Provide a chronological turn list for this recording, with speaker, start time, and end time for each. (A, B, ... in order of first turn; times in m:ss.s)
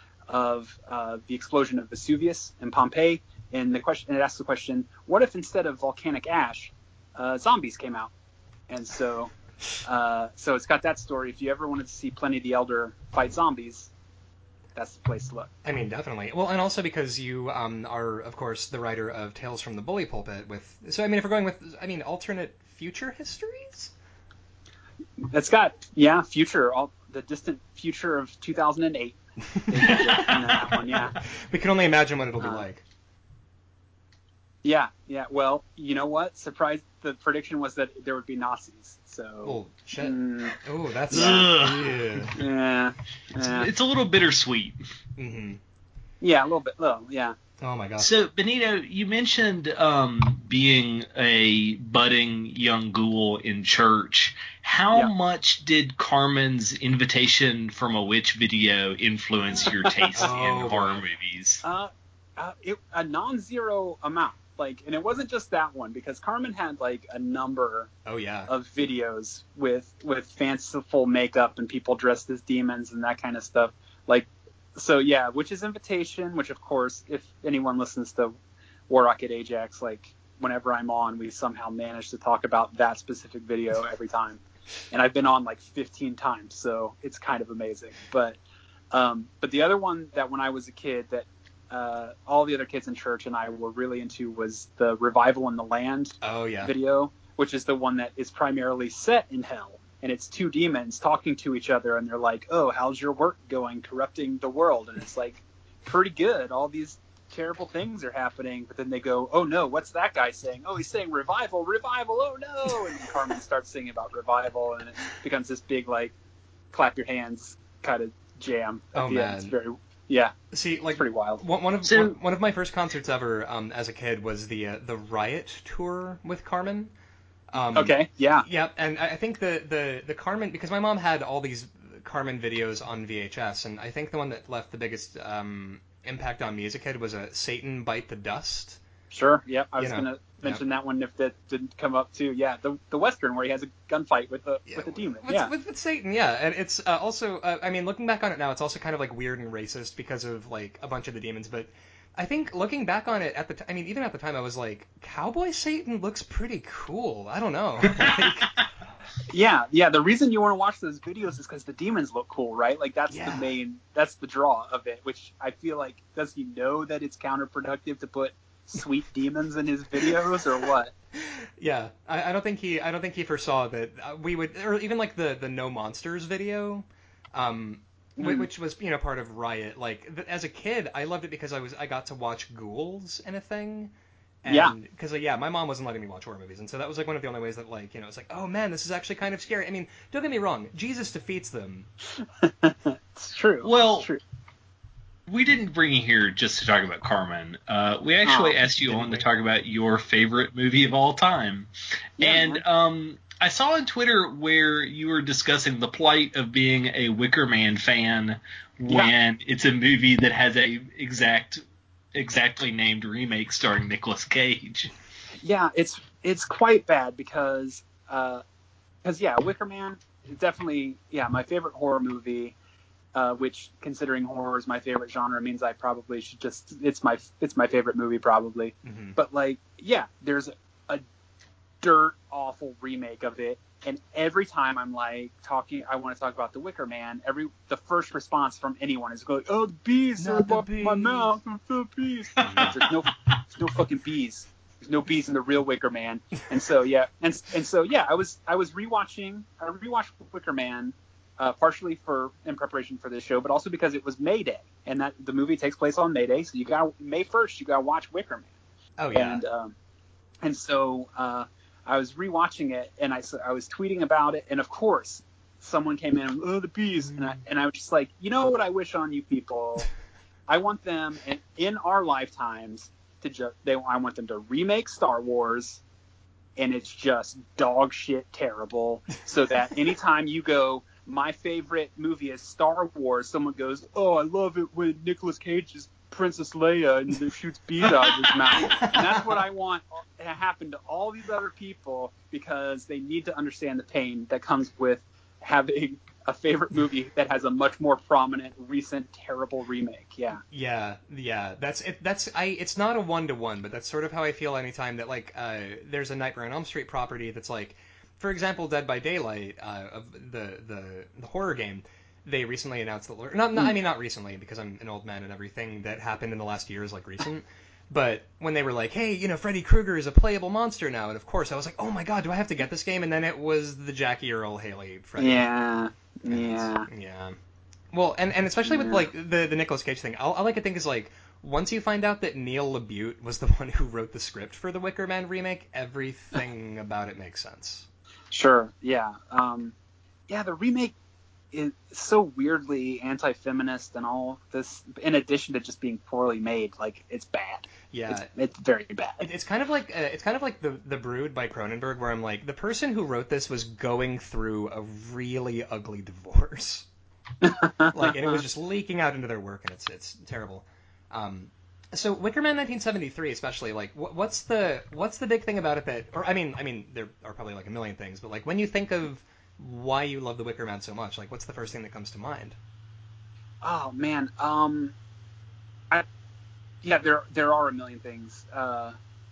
0:00.3-0:08.1 A
0:08.7-0:09.3 A
0:09.8-0:13.9 A
0:14.8-0:15.5 A
0:15.6-0:23.9 B
0:25.3-0:31.2 A
0:29.6-0:32.8 B
0:29.9-0:30.6 C
0:32.4-0:32.6 A
0:34.6-0:40.6 A
0:39.4-0:42.4 B
0:41.1-0:42.3 C
0:41.1-0:41.4 A
0:42.3-0:43.7 A
0:43.3-0:44.8 C
0:45.2-0:45.6 B
0:46.2-0:47.4 A
0:47.6-0:48.1 B
0:48.0-1:01.6 C
1:00.2-1:01.0 B
1:01.6-1:07.9 A
1:08.1-1:08.5 B
1:08.5-1:18.4 A
1:18.9-1:24.4 A
1:24.9-1:28.4 A
1:28.9-1:56.1 A
1:36.2-1:36.7 B
1:56.7-2:00.3 A
1:58.9-1:59.5 B
2:00.5-2:06.9 B
2:00.9-2:01.4 A
2:01.8-2:02.1 C
2:07.5-2:18.8 B
2:07.8-2:08.4 A
2:19.1-2:25.5 A
2:19.8-2:20.6 B
2:24.7-2:38.5 B
2:39.3-2:50.9 A
2:43.1-2:43.5 B
2:51.2-3:11.9 B
2:58.2-2:58.5 A
3:04.5-3:04.7 A
3:12.2-3:14.2 A
3:13.6-3:14.1 C
3:15.3-3:31.6 C
3:18.2-3:18.6 A
3:18.8-3:19.2 B
3:22.2-3:22.6 A
3:32.1-3:34.9 C
3:35.4-3:38.4 A
3:39.0-3:42.6 A
3:43.1-3:51.0 A
3:48.8-3:49.2 B
3:51.8-4:18.5 A
4:00.2-4:01.3 B
4:02.4-4:02.8 B
4:02.4-4:02.7 C
4:19.0-4:19.4 B
4:19.1-4:19.8 A
4:20.4-4:29.9 A
4:27.0-4:27.4 B
4:30.5-4:35.8 A
4:36.6-5:00.4 A
4:48.6-4:49.4 B
5:00.5-5:25.4 B
5:25.2-5:26.9 A
5:26.3-5:27.4 B
5:27.9-5:37.9 B
5:28.6-5:29.0 A
5:38.3-5:39.8 A
5:40.3-5:41.0 A
5:41.5-5:49.2 A
5:47.9-5:48.3 B
5:49.2-5:56.9 B
5:57.4-5:58.4 A
5:57.8-6:12.6 B
6:13.6-6:15.0 A
6:16.8-6:19.0 A